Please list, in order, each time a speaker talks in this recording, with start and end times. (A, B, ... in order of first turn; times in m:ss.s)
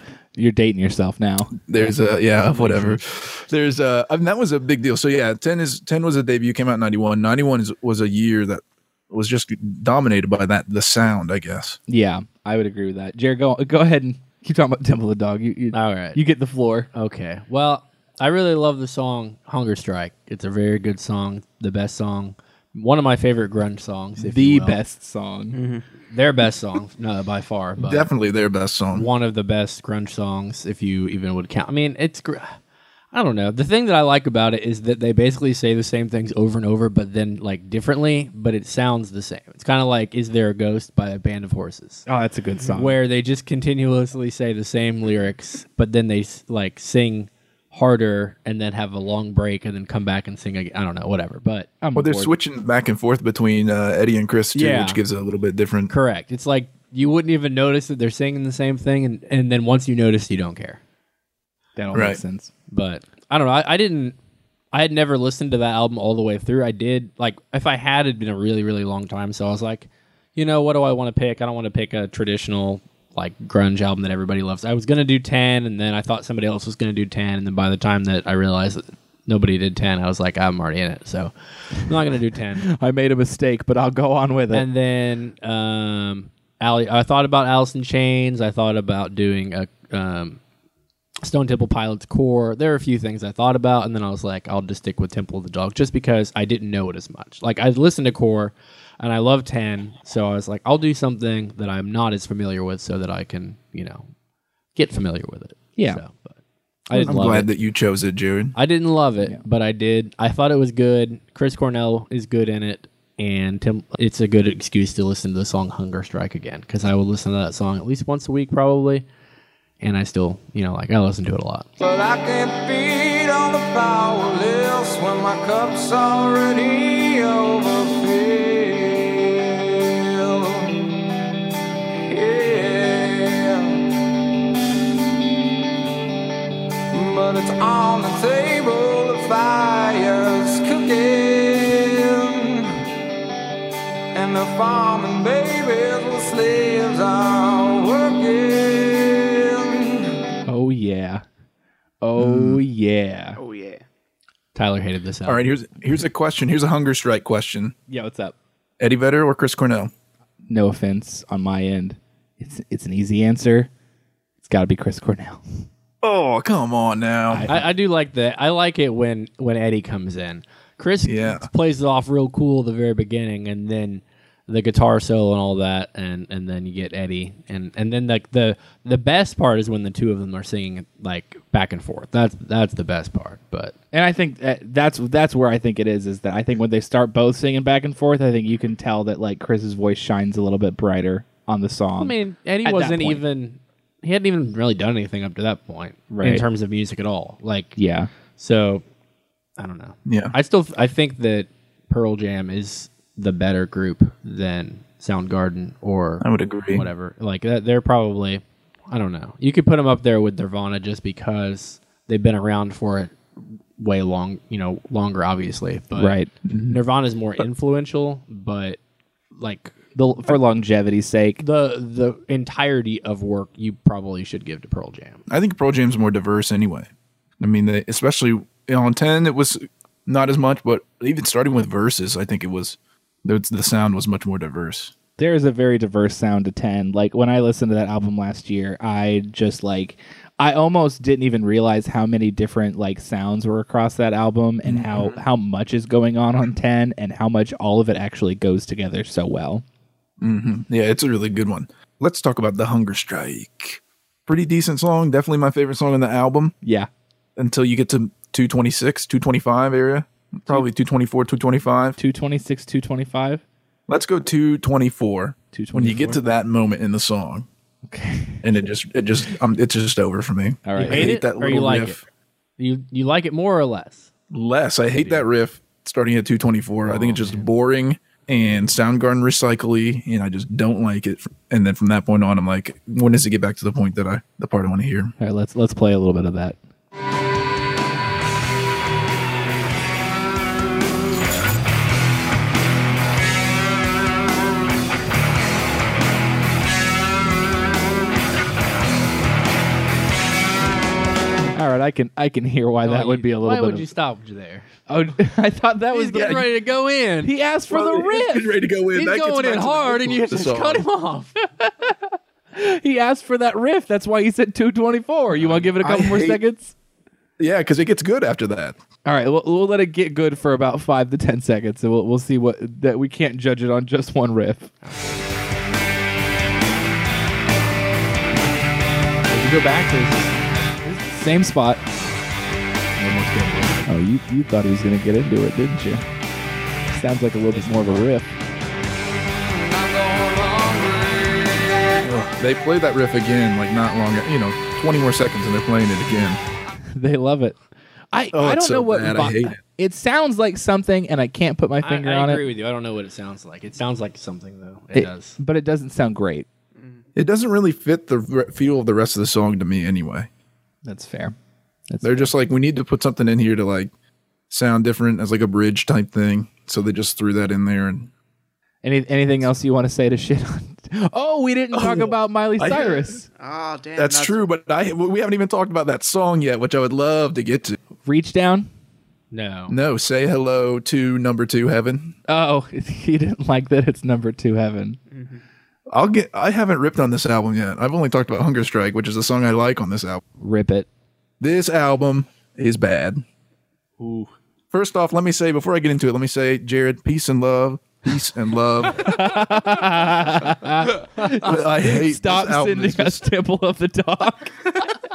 0:00.4-0:01.6 A
0:01.6-0:11.8 B
0:02.6-0:02.9 A
0:11.9-0:16.9 A
0:15.7-0:16.2 C
0:16.9-0:24.8 C
0:24.2-0:25.6 A
0:25.5-0:25.8 D
0:26.1-0:28.1 C
0:27.8-0:29.1 B
0:28.9-0:32.6 C
0:33.1-0:42.1 C
0:42.1-0:43.0 A
0:42.6-0:51.7 C
0:51.8-0:52.3 A
0:52.0-0:55.9 B
0:54.6-0:55.0 A
0:55.9-1:00.8 C
1:01.8-1:02.5 A
1:01.9-1:02.2 B
1:02.7-1:04.2 C
1:04.7-1:22.7 C
1:22.7-1:24.6 A
1:24.5-1:30.4 C
1:31.2-1:44.1 C
1:44.8-1:46.4 C
1:46.9-1:47.5 C
1:46.9-1:47.3 A
1:47.0-1:48.6 B
1:48.6-1:59.1 C
1:59.8-2:01.7 C
2:01.8-2:10.9 E
2:12.1-2:13.9 E
2:16.9-2:22.7 E
2:24.1-2:30.2 E
2:30.5-2:31.2 A
2:32.0-2:33.4 A
2:32.2-2:32.6 B
2:33.4-2:33.8 D
2:34.6-2:35.4 C
2:35.3-2:37.8 B
2:37.9-2:38.4 A
2:38.8-2:39.9 B
2:40.5-2:43.7 A
2:44.4-2:45.6 A
2:46.0-2:47.5 B
2:47.3-2:47.7 A
2:47.5-3:03.7 C
2:51.0-2:51.5 B
3:03.9-3:13.2 A
3:12.0-3:17.8 C
3:16.1-3:16.4 A
3:17.8-3:18.1 A
3:18.3-3:18.8 C
3:19.6-3:36.2 C
3:20.1-3:20.4 B
3:26.2-3:26.9 B
3:36.0-3:36.3 A
3:36.4-3:36.8 B
3:36.7-3:38.8 C
3:39.4-3:39.9 C
3:40.0-3:41.4 A
3:41.4-3:45.2 C
3:45.3-3:46.9 B
3:47.4-3:54.9 B
3:55.2-4:09.6 A
4:04.6-4:05.2 B
4:10.2-4:16.6 B
4:16.6-4:16.9 A
4:17.4-4:22.0 B
4:22.0-4:23.4 A
4:23.9-4:27.5 B
4:25.5-4:26.2 A
4:27.9-4:28.4 A
4:28.4-4:32.0 B
4:30.7-4:31.2 A
4:30.8-4:32.0 C
4:32.6-4:34.1 C
4:34.3-4:45.1 B
4:36.9-4:37.4 C
4:45.2-4:46.6 A
5:01.5-5:03.9 A
5:02.8-5:04.7 C
5:04.9-5:06.4 A
5:05.9-5:07.3 C
5:06.1-5:06.4 B
5:07.2-5:08.5 A
5:07.7-5:10.8 B
5:08.9-5:11.4 C
5:11.6-5:16.8 A
5:15.3-5:15.7 C
5:15.8-5:16.4 B
5:17.4-5:18.8 B
5:19.0-5:24.7 A
5:24.8-5:25.3 C
5:29.3-5:31.1 C
5:31.0-5:31.8 A
5:33.0-5:33.9 C
5:33.9-5:36.0 A
5:36.9-5:38.3 A
5:37.5-5:38.1 C
5:39.5-5:42.0 E
5:42.0-5:46.4 B
5:47.0-5:47.6 A
5:48.1-5:52.4 A
5:48.3-5:49.6 B
5:51.8-5:55.4 C
5:54.9-5:56.5 A
5:56.8-5:57.0 D
5:57.2-6:00.3 B
6:00.8-6:01.4 A
6:01.9-6:02.3 A
6:02.0-6:03.9 B
6:04.5-6:08.1 B
6:08.8-6:13.3 A
6:11.7-6:13.1 B
6:13.3-6:14.4 D
6:14.0-6:17.8 B
6:18.0-6:18.7 A
6:19.3-6:19.8 C
6:19.7-6:22.2 B
6:22.3-6:25.0 A
6:25.1-6:25.4 D
6:25.9-6:30.2 B
6:30.4-6:30.9 A
6:31.4-6:33.2 B
6:34.0-6:34.3 A
6:34.7-6:39.2 B
6:38.9-6:44.7 A
6:41.2-6:43.3 B